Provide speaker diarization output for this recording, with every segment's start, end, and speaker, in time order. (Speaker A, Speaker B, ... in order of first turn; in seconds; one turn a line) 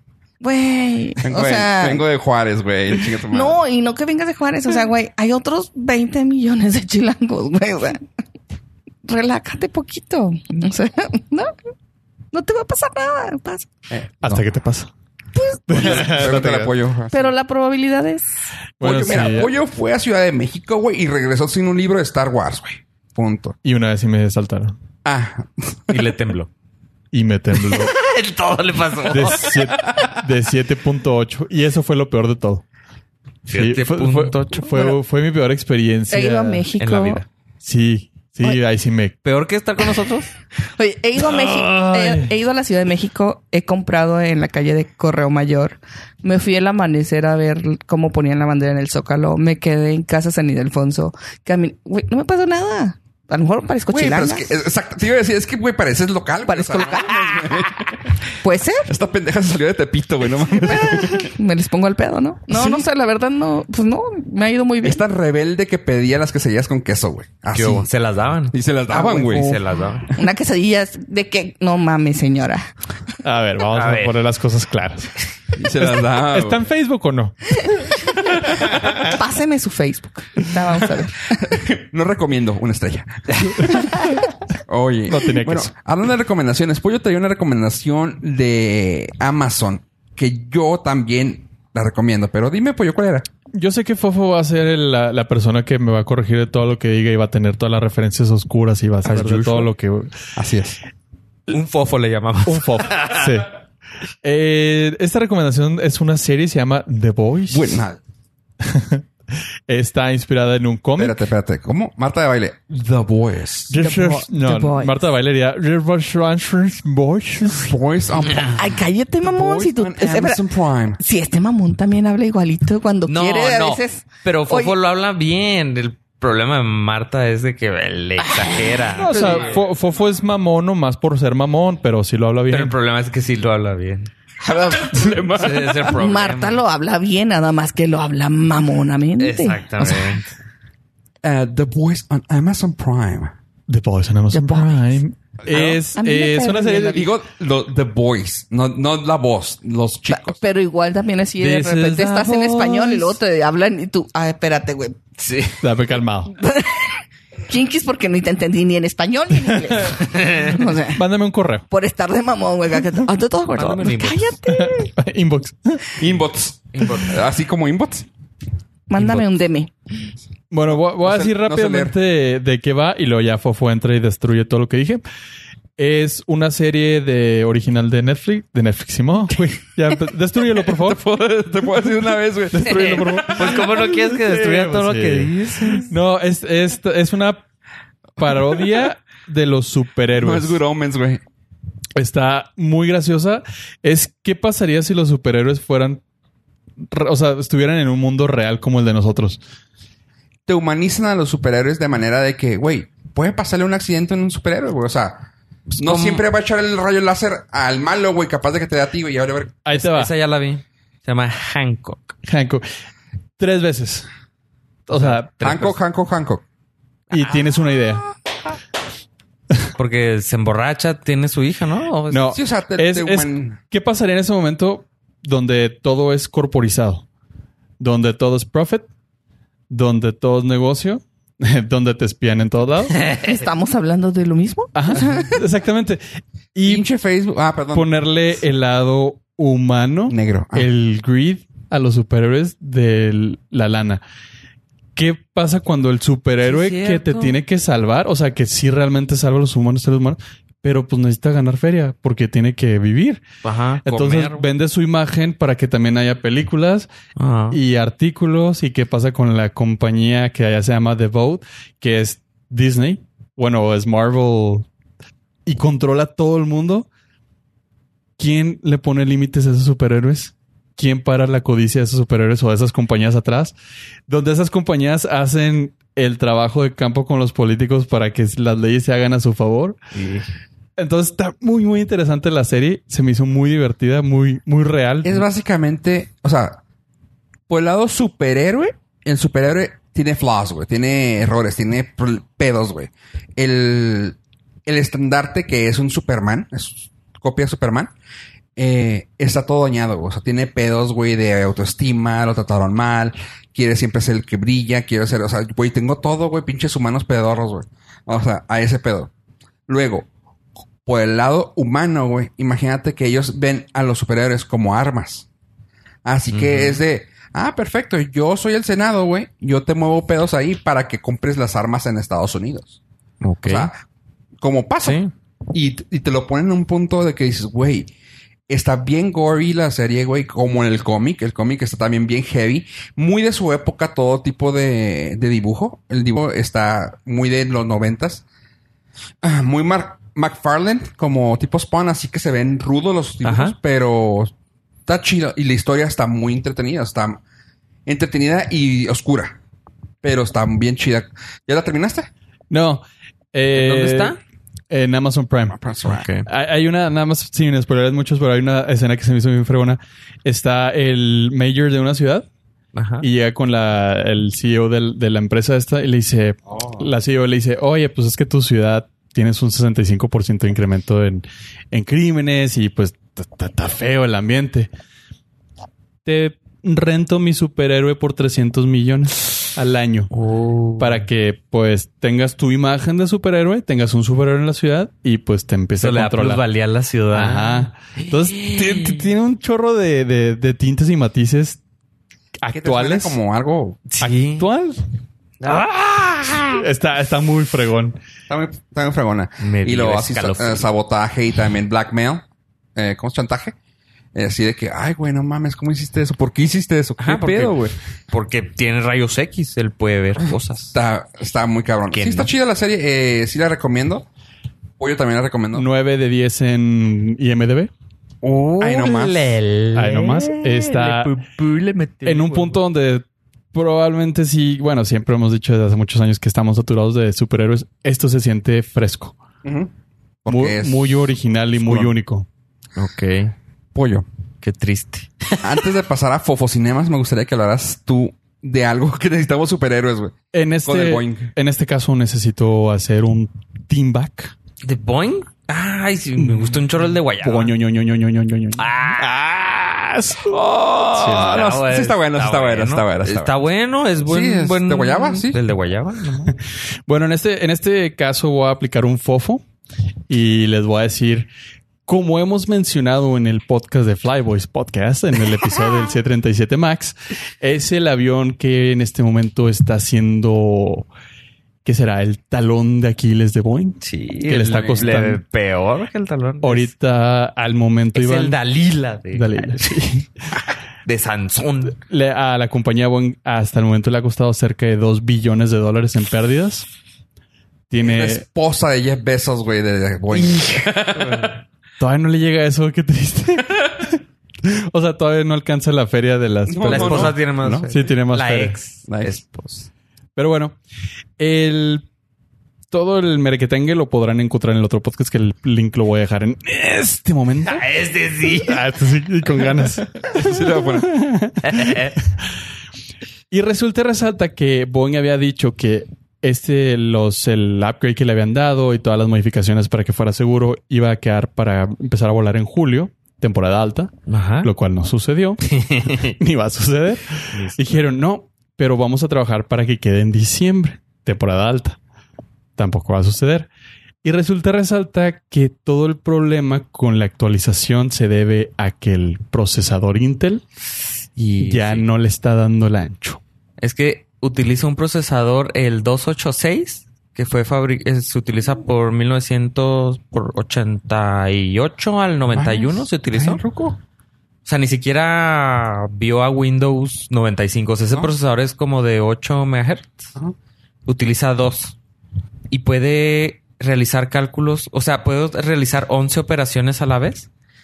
Speaker A: 0.4-2.0
Speaker B: 1.2-3.6
Speaker A: 3.0-8.0
Speaker A: 9.1-11.6
Speaker A: 12.3-13.7
Speaker B: 13.9-14.4
Speaker C: 14.2-14.9
Speaker A: 15.3-16.3
Speaker C: 15.7-16.7
Speaker B: 15.7-17.3
Speaker A: 17.1-18.5
Speaker C: 18.8-19.5
Speaker B: 18.8-23.6
Speaker C: 23.6-24.8
Speaker B: 25.1-26.0
Speaker D: 25.9-26.5
Speaker C: 27.1-27.9
Speaker D: 27.6-29.6
Speaker C: 29.1-32.6
Speaker D: 33.5-35.0
Speaker C: 33.5-36.7
Speaker A: 36.1-37.2
Speaker D: 36.8-37.3
Speaker C: 37.6-39.2
Speaker D: 39.2-40.3
Speaker A: 40.8-54.5
Speaker C: 41.2-42.3
Speaker B: 53.9-58.2
Speaker A: 56.5-58.9
Speaker B: 58.9-61.3
Speaker A: 60.5-65.0
Speaker B: 64.8-67.9
Speaker D: 67.5-70.1
Speaker B: 68.5-69.6
Speaker A: 70.1-72.7
Speaker C: 73.2-75.2
Speaker D: 73.7-74.2
Speaker B: 75.6-76.6
Speaker C: 75.8-79.1
Speaker A: 78.7-81.5
Speaker B: 81.4-84.0
Speaker B: 84.7-93.3
Speaker C: 85.1-85.7
Speaker C: 93.5-100.2
Speaker D: 99.0-99.7
Speaker B: 100.4-100.8
Speaker D: 101.5-103.3
Speaker C: 102.5-103.5
Speaker C: 104.2-107.8
Speaker B: 107.5-108.0
Speaker C: 108.6-109.1
Speaker C: 109.7-111.2
Speaker B: 111.0-113.8
Speaker C: 113.7-117.7
Speaker A: 113.8-115.0
Speaker B: 117.5-121.0
Speaker A: 118.4-124.8
Speaker D: 123.1-129.6
Speaker A: 128.5-129.4
Speaker C: 129.0-132.8
Speaker D: 132.5-134.1
Speaker A: 134.4-135.0
Speaker B: 134.8-135.9
Speaker D: 135.3-136.6
Speaker A: 135.8-140.2
Speaker D: 139.2-140.3
Speaker B: 141.2-143.3
Speaker C: 143.7-147.1
Speaker A: 144.3-147.1
Speaker B: 146.9-150.4
Speaker A: 150.1-155.0
Speaker C: 151.4-153.2
Speaker D: 155.2-155.6
Speaker C: 155.6-156.3
Speaker A: 156.3-161.0
Speaker C: 160.9-161.7
Speaker A: 161.7-164.9
Speaker D: 163.6-164.3
Speaker C: 164.5-165.9
Speaker B: 166.0-168.1
Speaker D: 166.7-167.1
Speaker A: 168.9-169.7
Speaker C: 169.0-169.3
Speaker C: 170.5-175.0
Speaker B: 170.7-171.9
Speaker C: 175.8-181.0
Speaker B: 180.6-183.8
Speaker C: 182.5-187.4
Speaker D: 182.7-185.9
Speaker C: 188.2-190.6
Speaker B: 190.1-191.2
Speaker C: 192.0-196.0
Speaker C: 196.9-199.4
Speaker B: 200.5-209.6
Speaker D: 205.7-206.2
Speaker C: 209.7-210.1
Speaker D: 209.7-212.2
Speaker C: 212.2-212.7
Speaker C: 213.4-214.1
Speaker C: 214.9-215.5
Speaker D: 214.9-215.8
Speaker B: 215.4-216.4
Speaker C: 217.1-218.1
Speaker D: 219.8-222.3
Speaker C: 222.1-227.1
Speaker B: 222.3-223.6
Speaker C: 227.8-228.9
Speaker C: 229.7-233.0
Speaker A: 233.1-235.4
Speaker C: 234.8-236.9
Speaker B: 236.7-237.9
Speaker C: 237.7-244.0
Speaker B: 240.1-240.7
Speaker C: 244.9-253.2
Speaker D: 246.4-247.4
Speaker D: 253.4-254.5
Speaker C: 253.8-256.9
Speaker D: 257.2-257.6
Speaker C: 257.5-264.7
Speaker C: 265.5-266.9
Speaker C: 268.2-273.5
Speaker C: 274.1-279.8
Speaker D: 279.9-280.2
Speaker C: 280.8-285.2
Speaker B: 285.0-286.6
Speaker B: 287.5-297.9
Speaker B: 298.6-309.1
Speaker B: 309.7-310.1
Speaker B: 310.9-315.3
Speaker B: 316.1-322.8
Speaker D: 316.3-316.8
Speaker D: 323.2-323.7
Speaker B: 323.5-323.8
Speaker B: 324.4-325.0
Speaker D: 324.8-325.1
Speaker B: 325.5-327.9
Speaker B: 328.5-338.2
Speaker B: 339.2-344.3
Speaker D: 343.2-343.6
Speaker B: 344.9-347.2
Speaker B: 347.9-349.4
Speaker B: 350.0-352.1
Speaker C: 352.5-354.2
Speaker D: 353.5-354.2
Speaker C: 354.7-355.6
Speaker B: 355.5-356.1
Speaker D: 355.9-356.3
Speaker C: 356.2-362.3
Speaker D: 362.7-363.1
Speaker C: 363.0-374.7
Speaker B: 366.6-366.9
Speaker C: 376.1-380.1
Speaker D: 380.1-381.1
Speaker C: 380.8-386.4
Speaker D: 385.8-389.1
Speaker C: 387.1-391.6
Speaker C: 392.4-393.2
Speaker B: 392.5-393.8
Speaker D: 393.9-394.5
Speaker C: 394.0-394.8
Speaker D: 395.4-396.6
Speaker C: 396.6-398.0
Speaker B: 398.3-402.2
Speaker D: 399.4-400.7
Speaker B: 402.8-403.6
Speaker B: 404.1-407.8
Speaker D: 407.0-410.8
Speaker B: 410.7-414.1
Speaker D: 411.9-412.3
Speaker B: 414.8-415.7
Speaker C: 415.5-417.7
Speaker D: 418.2-422.6
Speaker B: 418.6-419.3
Speaker C: 419.8-421.1
Speaker C: 422.0-429.2
Speaker B: 429.4-429.7
Speaker B: 430.2-431.0
Speaker C: 430.3-432.3
Speaker B: 431.6-431.9
Speaker D: 432.8-433.3
Speaker B: 433.7-434.1
Speaker D: 434.4-435.4
Speaker B: 435.4-441.3
Speaker C: 440.3-444.3
Speaker D: 444.6-447.6
Speaker C: 446.2-451.4
Speaker D: 448.6-449.1
Speaker B: 450.3-453.4
Speaker D: 451.0-456.4
Speaker B: 454.1-455.4
Speaker C: 456.9-459.4
Speaker C: 460.1-461.3
Speaker C: 461.9-470.9
Speaker C: 471.6-475.2
Speaker D: 473.8-476.7
Speaker C: 476.4-478.4
Speaker D: 477.9-479.8
Speaker C: 479.1-480.1
Speaker D: 480.9-481.8
Speaker C: 481.8-486.7
Speaker C: 487.7-488.2
Speaker B: 487.8-491.4
Speaker C: 490.1-490.6
Speaker C: 491.8-498.6
Speaker B: 496.5-497.7
Speaker D: 496.6-499.7
Speaker B: 498.9-499.2
Speaker C: 500.2-500.6
Speaker C: 501.2-501.9
Speaker C: 502.7-507.6
Speaker D: 507.4-508.6
Speaker C: 508.3-511.9
Speaker B: 510.1-511.1
Speaker D: 511.4-512.0
Speaker C: 513.3-531.8
Speaker D: 524.1-524.5
Speaker D: 525.5-526.1
Speaker D: 527.3-527.8
Speaker C: 532.6-533.5
Speaker C: 534.0-540.4
Speaker D: 541.2-541.9
Speaker C: 541.4-543.2
Speaker D: 543.6-553.4
Speaker B: 552.3-553.8
Speaker D: 554.5-560.1
Speaker D: 560.9-561.8
Speaker D: 562.5-567.3